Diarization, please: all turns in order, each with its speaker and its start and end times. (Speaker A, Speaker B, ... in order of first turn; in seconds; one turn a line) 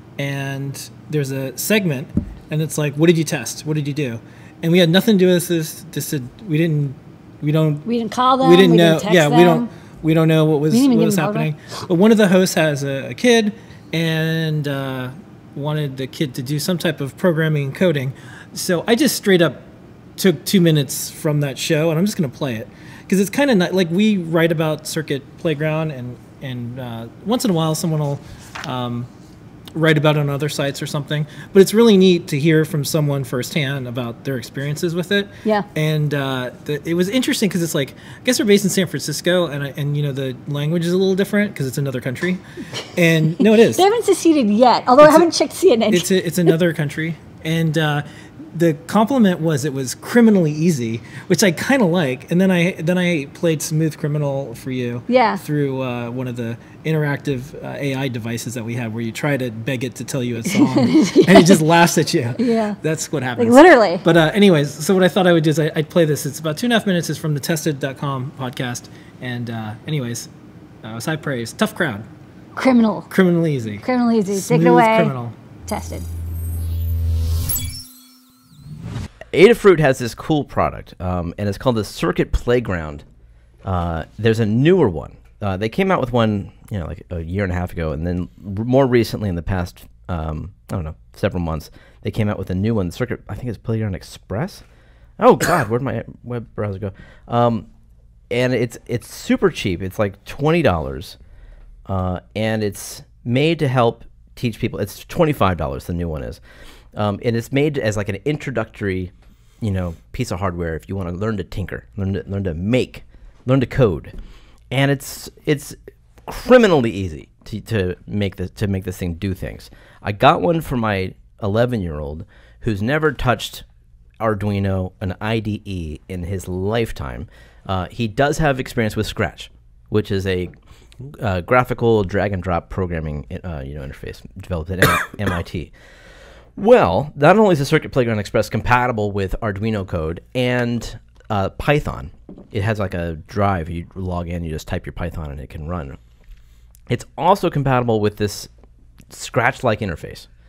Speaker A: 0.2-7.8
Speaker B: 7.8-9.7
Speaker A: 8.4-19.6
Speaker B: 10.7-11.5
Speaker A: 20.2-29.1
Speaker A: 29.7-42.4
Speaker A: 42.9-43.8
Speaker B: 43.3-46.5
Speaker A: 45.0-45.2
Speaker A: 45.9-70.3
Speaker B: 55.1-55.4
Speaker B: 60.5-61.6
Speaker B: 62.4-62.8
Speaker B: 63.4-64.0
Speaker A: 70.8-72.0
Speaker B: 72.5-73.1
Speaker A: 73.1-75.3
Speaker B: 73.8-75.1
Speaker B: 75.7-76.1
Speaker C: 79.3-83.0
Speaker C: 83.6-94.6
Speaker C: 95.2-97.7
Speaker C: 98.3-101.2
Speaker C: 101.8-106.4
Speaker C: 106.9-114.1
Speaker C: 114.7-123.6
Speaker C: 124.2-135.7
Speaker C: 136.6-146.0
Speaker C: 146.9-148.5
Speaker C: 149.1-150.3